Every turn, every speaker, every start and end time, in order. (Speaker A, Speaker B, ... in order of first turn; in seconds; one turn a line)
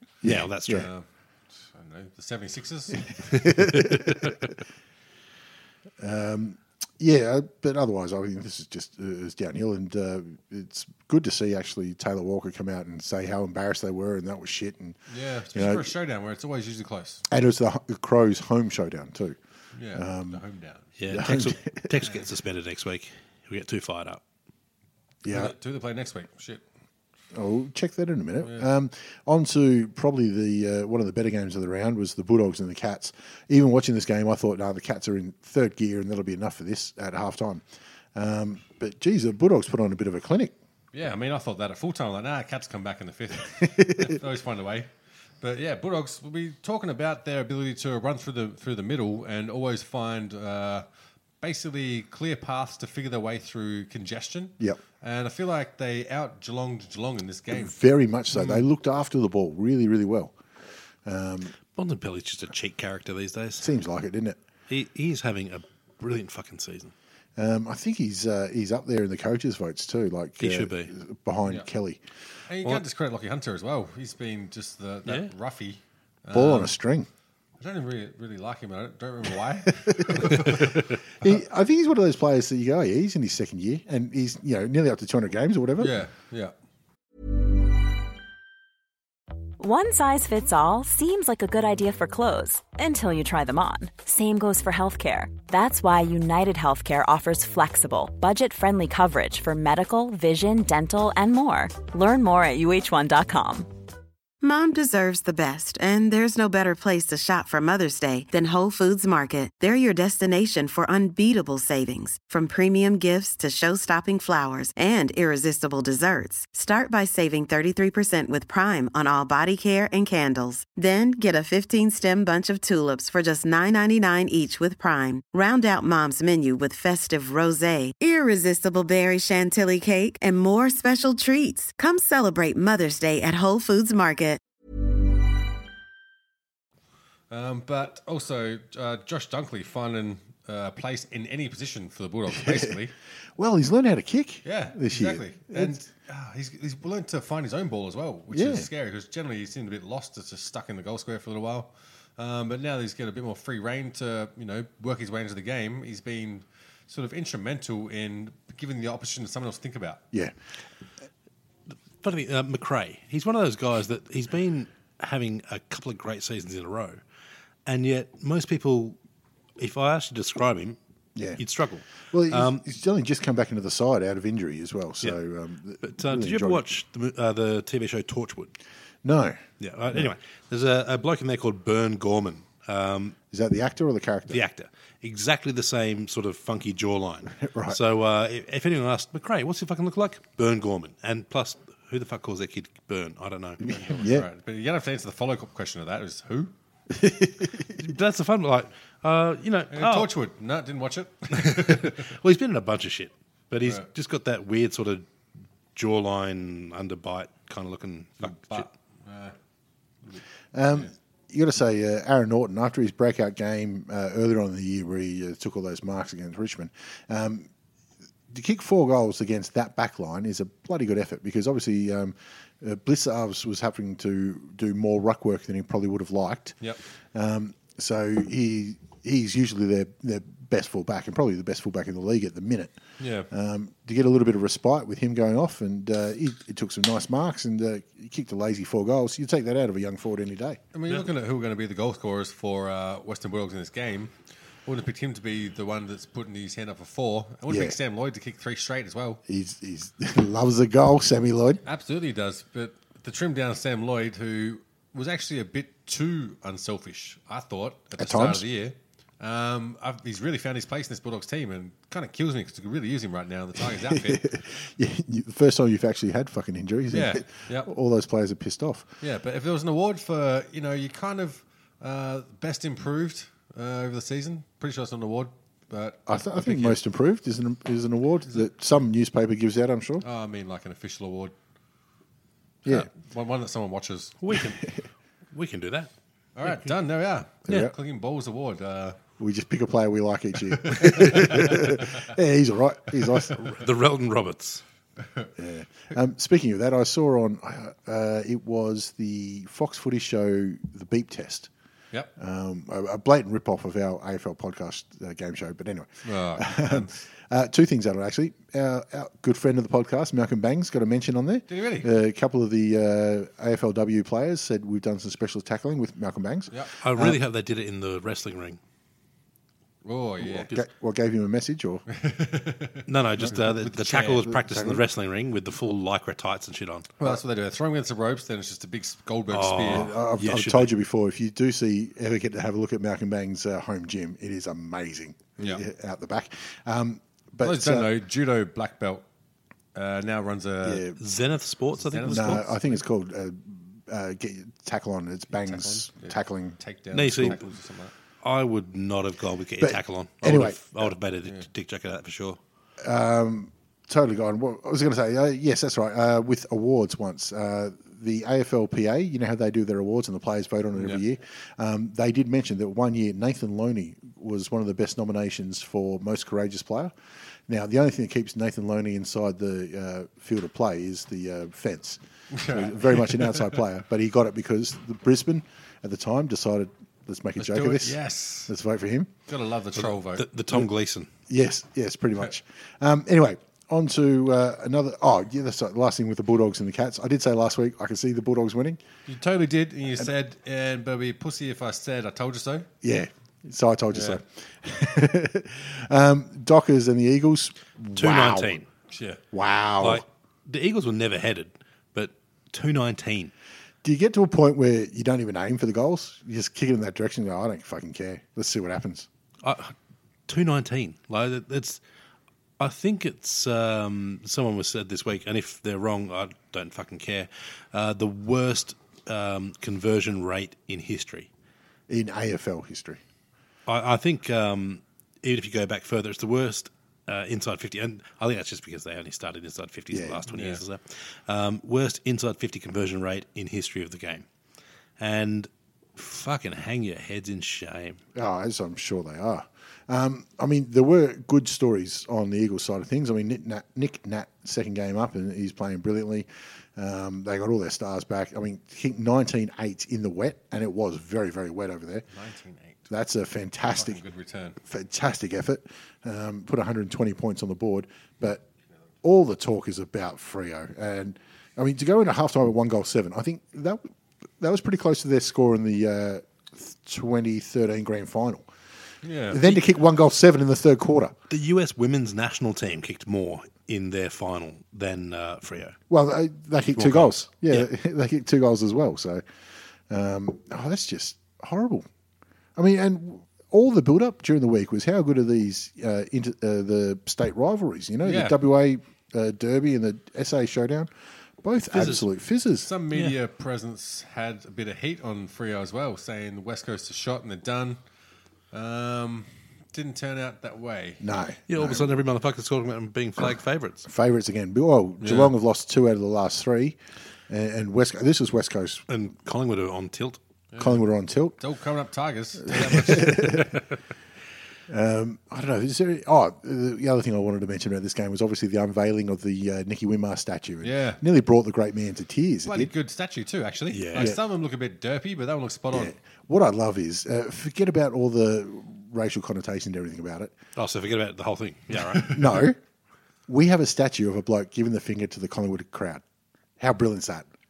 Speaker A: 0.2-0.9
Speaker B: 0.2-0.9
Speaker C: 0.7-1.0
Speaker C: 1.6-3.4
Speaker A: 3.3-4.3
Speaker B: 3.7-4.1
Speaker A: 6.0-15.0
Speaker C: 15.1-17.2
Speaker A: 15.5-15.9
Speaker A: 17.3-19.4
Speaker C: 19.7-20.8
Speaker A: 19.9-20.4
Speaker B: 21.0-24.2
Speaker A: 21.1-22.0
Speaker A: 25.2-25.5
Speaker C: 25.3-26.6
Speaker A: 27.3-37.6
Speaker A: 38.1-40.5
Speaker C: 40.9-44.9
Speaker A: 43.6-44.1
Speaker C: 45.4-50.9
Speaker C: 51.4-57.8
Speaker A: 57.5-60.3
Speaker C: 58.3-58.6
Speaker A: 61.0-61.5
Speaker B: 61.7-63.7
Speaker A: 63.6-64.4
Speaker B: 64.7-66.9
Speaker A: 67.3-72.0
Speaker B: 70.4-70.9
Speaker C: 72.5-76.8
Speaker B: 75.0-75.3
Speaker A: 76.3-77.1
Speaker C: 77.6-81.2
Speaker A: 79.9-80.6
Speaker A: 81.2-86.0
Speaker C: 85.8-86.5
Speaker D: 89.6-103.7
Speaker E: 104.4-134.4
Speaker C: 137.3-142.9
Speaker A: 142.3-142.8
Speaker A: 143.3-145.8
Speaker C: 144.4-160.0
Speaker A: 148.3-148.7
Speaker B: 162.0-167.0
Speaker B: 167.7-169.0
Speaker B: 169.6-170.8
Speaker A: 171.2-171.4
Speaker B: 171.4-172.6
Speaker A: 172.0-176.7
Speaker B: 175.8-178.5
Speaker A: 179.0-180.1
Speaker B: 179.6-183.2
Speaker A: 183.3-184.4
Speaker B: 184.3-193.6
Speaker A: 187.4-187.8
Speaker A: 193.6-194.2
Speaker C: 193.6-196.5
Speaker A: 196.9-197.9
Speaker B: 197.8-200.1
Speaker C: 199.7-202.0
Speaker B: 201.3-205.0
Speaker B: 205.7-208.7
Speaker C: 208.2-209.3
Speaker A: 210.5-217.5
Speaker A: 218.3-226.6
Speaker A: 227.1-232.8
Speaker C: 233.0-233.3
Speaker A: 233.3-240.6
Speaker C: 240.7-244.1
Speaker C: 244.7-249.2
Speaker A: 247.5-247.8
Speaker A: 249.3-251.6
Speaker C: 251.6-264.3
Speaker A: 258.0-258.4
Speaker A: 263.7-268.9
Speaker C: 266.9-267.7
Speaker C: 269.0-276.8
Speaker A: 276.1-280.0
Speaker C: 280.0-281.3
Speaker C: 282.7-284.2
Speaker B: 284.2-284.7
Speaker A: 284.3-284.8
Speaker B: 285.3-285.9
Speaker C: 286.4-289.0
Speaker A: 287.4-287.7
Speaker A: 289.2-293.6
Speaker C: 290.7-292.0
Speaker B: 293.4-294.6
Speaker C: 295.0-295.3
Speaker A: 295.4-301.5
Speaker A: 302.2-317.2
Speaker C: 306.0-307.0
Speaker C: 311.5-311.9
Speaker B: 316.8-318.6
Speaker C: 319.8-320.5
Speaker A: 320.2-321.8
Speaker C: 321.9-324.3
Speaker B: 322.9-326.9
Speaker A: 324.3-324.8
Speaker C: 327.0-329.9
Speaker B: 329.3-330.7
Speaker A: 329.6-337.9
Speaker C: 335.4-335.6
Speaker C: 337.4-339.0
Speaker C: 339.7-340.9
Speaker A: 340.6-341.0
Speaker B: 341.0-342.5
Speaker C: 341.8-342.8
Speaker A: 342.0-346.6
Speaker C: 345.3-347.9
Speaker B: 346.9-347.4
Speaker B: 348.2-352.4
Speaker A: 349.6-350.9
Speaker A: 352.8-366.9
Speaker A: 367.5-379.1
Speaker C: 372.3-373.6
Speaker C: 377.4-378.5
Speaker C: 379.3-380.3
Speaker B: 380.0-381.1
Speaker A: 381.3-388.8
Speaker C: 389.1-392.7
Speaker A: 392.8-398.6
Speaker C: 393.9-394.2
Speaker B: 397.9-398.7
Speaker C: 398.9-399.2
Speaker A: 399.3-400.0
Speaker B: 399.8-403.3
Speaker A: 403.8-409.1
Speaker B: 409.4-409.7
Speaker B: 410.3-411.8
Speaker B: 412.6-421.3
Speaker A: 421.9-423.0
Speaker B: 423.7-434.2
Speaker A: 429.9-430.2
Speaker C: 430.3-430.6
Speaker B: 435.0-438.0
Speaker A: 438.1-452.1
Speaker C: 452.1-452.8
Speaker A: 452.9-454.0
Speaker C: 453.7-454.6
Speaker A: 454.6-458.4
Speaker A: 459.0-463.8
Speaker A: 464.4-468.5
Speaker C: 469.0-469.4
Speaker A: 469.3-471.1
Speaker B: 471.3-475.8
Speaker A: 475.9-479.2
Speaker B: 476.7-477.7
Speaker A: 479.9-481.9
Speaker A: 482.6-492.7
Speaker C: 488.0-488.4
Speaker B: 491.7-492.1
Speaker C: 492.6-497.8
Speaker C: 498.5-501.0
Speaker A: 501.0-501.9
Speaker B: 501.5-503.9
Speaker A: 503.8-506.8
Speaker C: 505.0-505.3
Speaker A: 507.3-508.8
Speaker B: 508.9-510.2
Speaker C: 510.5-510.8
Speaker A: 510.6-511.4
Speaker C: 511.4-513.4
Speaker A: 512.5-513.5
Speaker A: 514.7-522.7
Speaker C: 520.6-521.0
Speaker C: 522.5-525.9
Speaker B: 523.7-524.1
Speaker A: 525.7-530.4
Speaker B: 530.5-532.5
Speaker C: 531.9-532.4
Speaker A: 532.0-532.6
Speaker A: 533.3-536.0
Speaker A: 536.6-537.3